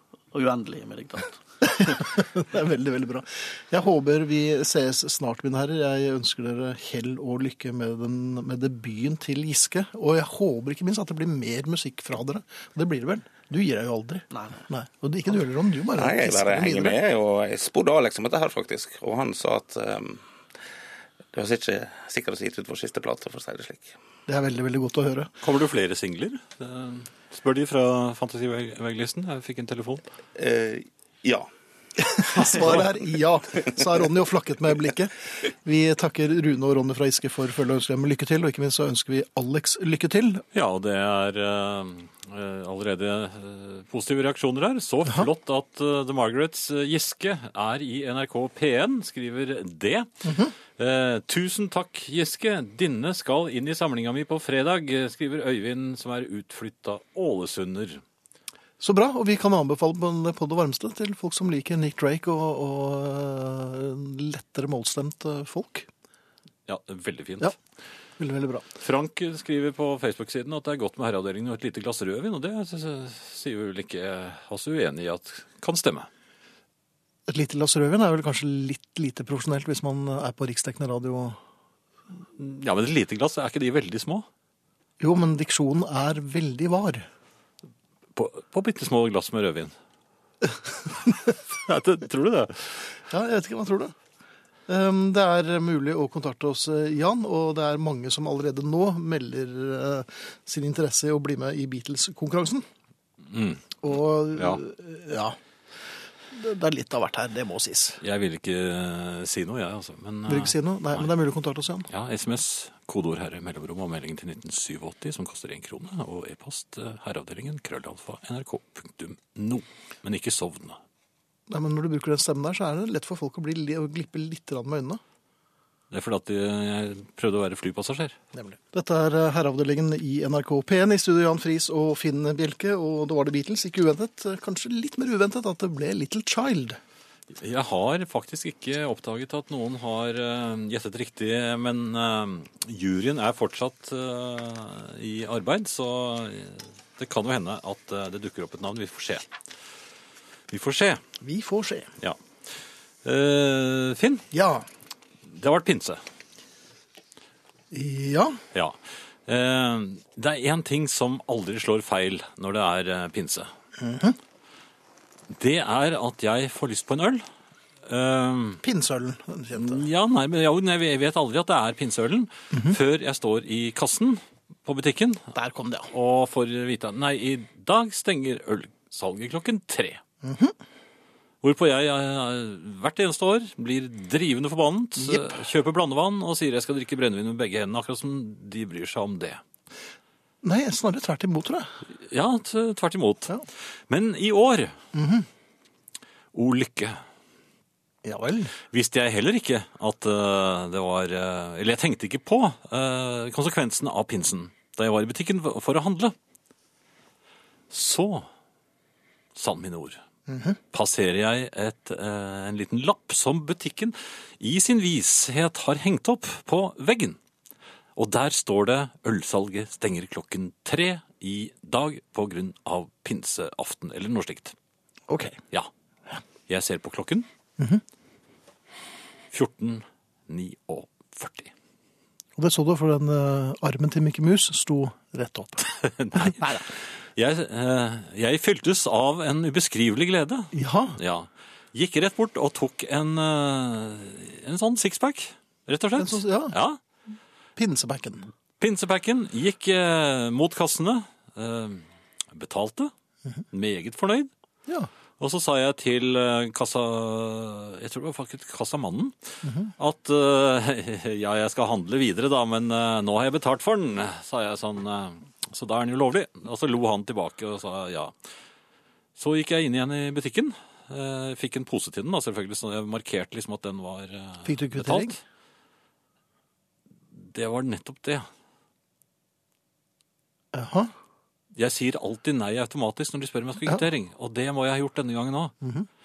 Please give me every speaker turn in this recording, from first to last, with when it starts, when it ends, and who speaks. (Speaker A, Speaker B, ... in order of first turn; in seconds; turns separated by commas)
Speaker A: 0.3-2.0, Speaker B: 1.6-17.0, Speaker A: 14.3-14.6, Speaker C: 15.9-20.2, Speaker C: 21.3-23.9, Speaker B: 24.3-25.3, Speaker D: 25.4-30.0, Speaker C: 30.4-31.5, Speaker B: 32.0-40.4, Speaker D: 40.5-58.0, Speaker B: 50.2-50.5, Speaker B: 58.8-65.9, Speaker D: 66.7-67.5, Speaker B: 68.2-68.7, Speaker D: 68.8-76.1, Speaker B: 77.3-81.4, Speaker D: 82.4-84.2, Speaker B: 85.0-87.0, Speaker D: 88.1-89.7, Speaker D: 91.5-92.9, Speaker B: 93.1-93.9, Speaker B: 94.7-102.6, Speaker D: 103.3-103.8, Speaker B: 103.8-105.4, Speaker D: 104.3-104.6, Speaker B: 106.3-108.0, Speaker D: 108.0-111.1, Speaker B: 110.3-111.9, Speaker D: 111.9-120.8, Speaker B: 121.5-125.0, Speaker D: 125.9-128.2, Speaker B: 128.3-136.8, Speaker D: 137.4-149.3, Speaker D: 150.5-151.0, Speaker B: 151.2-151.9, Speaker D: 153.0-154.2, Speaker B: 154.3-154.7, Speaker D: 155.3-156.0, Speaker B: 157.7-158.4, Speaker D: 158.5-163.5, Speaker B: 163.8-164.2, Speaker D: 165.3-167.2, Speaker D: 167.9-168.6, Speaker B: 168.6-169.8, Speaker D: 169.5-175.3, Speaker B: 172.5-172.8, Speaker B: 175.3-175.9, Speaker D: 175.9-180.0, Speaker B: 180.2-180.5, Speaker D: 181.4-189.4, Speaker B: 185.0-185.3, Speaker B: 190.4-191.7, Speaker D: 192.0-194.7, Speaker B: 194.9-195.3, Speaker D: 196.3-197.0, Speaker B: 198.0-198.5, Speaker D: 198.7-206.1, Speaker D: 207.7-208.2, Speaker D: 209.3-210.0, Speaker B: 210.3-210.6, Speaker D: 210.7-217.2, Speaker D: 217.9-224.5, Speaker B: 225.1-225.4, Speaker D: 226.5-227.3, Speaker B: 227.6-227.8, Speaker D: 229.3-231.5, Speaker B: 232.4-236.7, Speaker D: 235.7-246.8, Speaker B: 240.5-241.0, Speaker B: 246.0-246.6, Speaker B: 247.6-248.3, Speaker D: 248.6-252.9, Speaker D: 253.5-254.3, Speaker D: 255.2-268.1, Speaker B: 259.4-259.7, Speaker D: 269.2-275.2, Speaker B: 274.4-275.2, Speaker D: 277.1-278.2, Speaker B: 280.5-280.9, Speaker D: 281.5-285.5, Speaker B: 285.6-285.9